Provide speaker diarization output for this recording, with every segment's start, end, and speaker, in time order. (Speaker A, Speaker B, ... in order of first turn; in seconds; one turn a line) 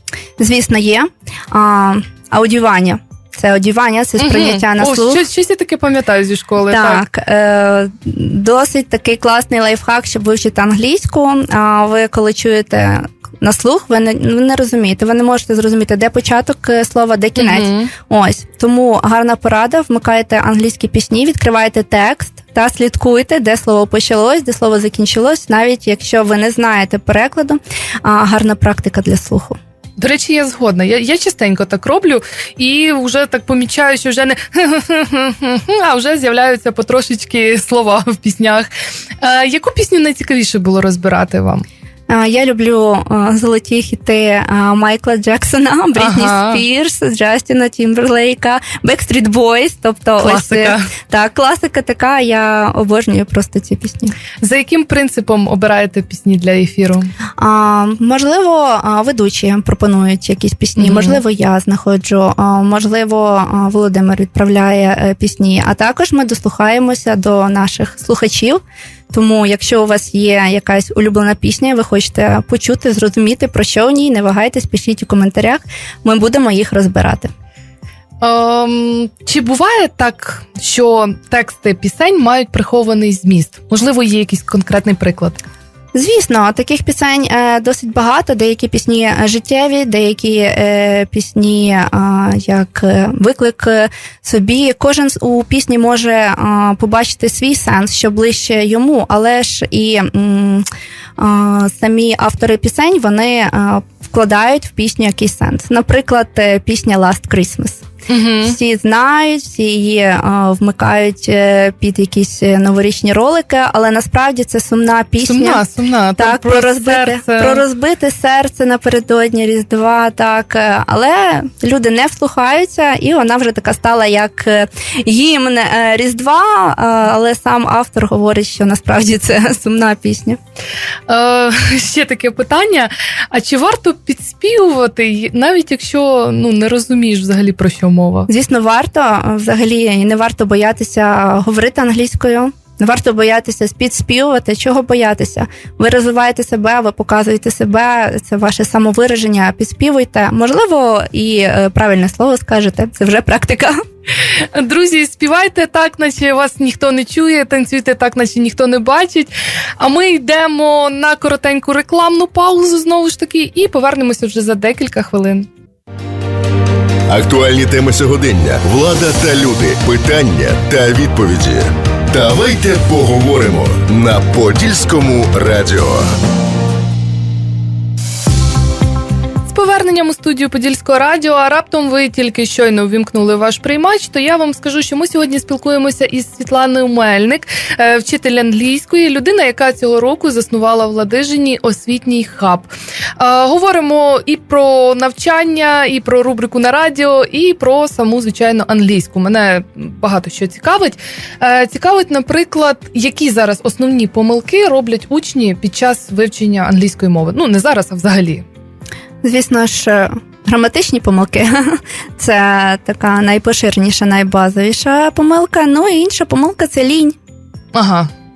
Speaker A: 0.4-5.2
Speaker B: 4.2-7.1
Speaker A: 6.7-29.6
Speaker B: 17.4-17.9
Speaker B: 30.0-38.7
Speaker B: 39.2-41.7
Speaker A: 42.1-54.1
Speaker B: 46.0-46.6
Speaker B: 50.2-50.9
Speaker B: 54.4-57.1
Speaker A: 57.4-77.3
Speaker B: 60.8-61.2
Speaker B: 78.2-85.4
Speaker A: 85.9-100.7
Speaker A: 101.2-107.9
Speaker B: 108.1-108.6
Speaker A: 108.4-115.6
Speaker B: 115.2-117.6
Speaker A: 116.2-130.4
Speaker B: 131.1-138.3
Speaker A: 138.3-153.8
Speaker B: 154.3-165.5
Speaker C: 167.1-176.1
Speaker B: 179.5-208.5
Speaker A: 209.2-217.2
Speaker B: 217.7-218.1